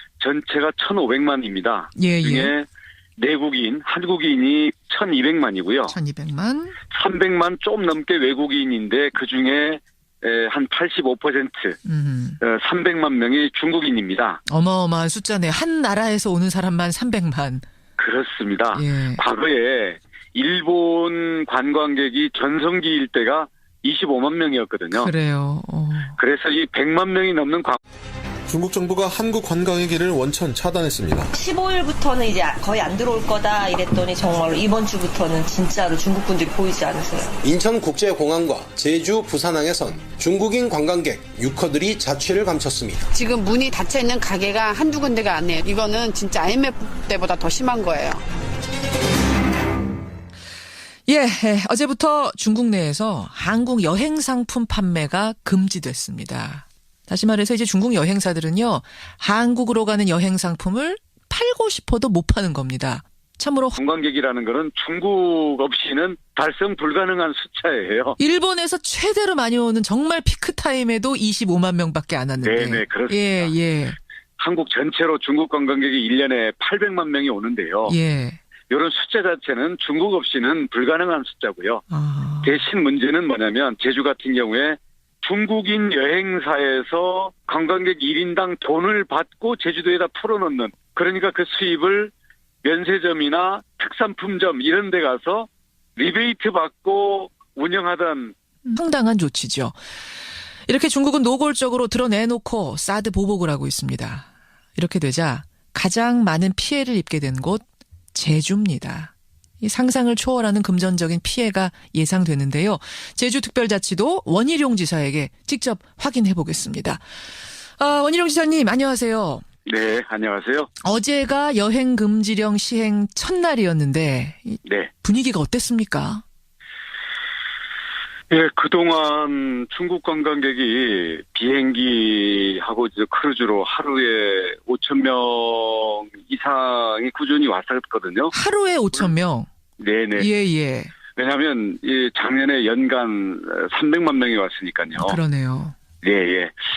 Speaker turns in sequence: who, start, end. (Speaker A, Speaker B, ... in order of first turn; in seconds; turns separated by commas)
Speaker A: 0.2-6.0, Speaker B: 2.0-2.5, Speaker B: 5.9-6.8, Speaker A: 6.9-11.8, Speaker B: 11.8-12.4, Speaker A: 12.4-14.4, Speaker B: 14.5-17.6, Speaker A: 18.0-25.1, Speaker B: 18.7-19.2, Speaker B: 24.9-26.2, Speaker A: 26.2-27.8, Speaker C: 28.5-31.3, Speaker D: 31.3-37.4, Speaker E: 37.4-43.1, Speaker F: 43.1-48.2, Speaker B: 51.1-63.8, Speaker A: 63.8-68.2, Speaker B: 68.2-74.0, Speaker A: 72.4-73.5, Speaker A: 74.4-78.0, Speaker B: 77.9-78.4, Speaker A: 78.7-81.8, Speaker B: 81.9-82.6, Speaker A: 82.4-92.1, Speaker A: 92.6-98.3, Speaker B: 98.7-99.8, Speaker B: 100.7-117.0, Speaker B: 117.8-119.5, Speaker A: 119.7-120.7, Speaker B: 120.8-126.2, Speaker A: 124.7-124.9, Speaker A: 128.3-138.3, Speaker B: 138.3-139.5, Speaker A: 139.8-140.3, Speaker B: 140.2-140.9, Speaker A: 141.2-145.2, Speaker B: 145.0-145.8, Speaker A: 146.0-146.5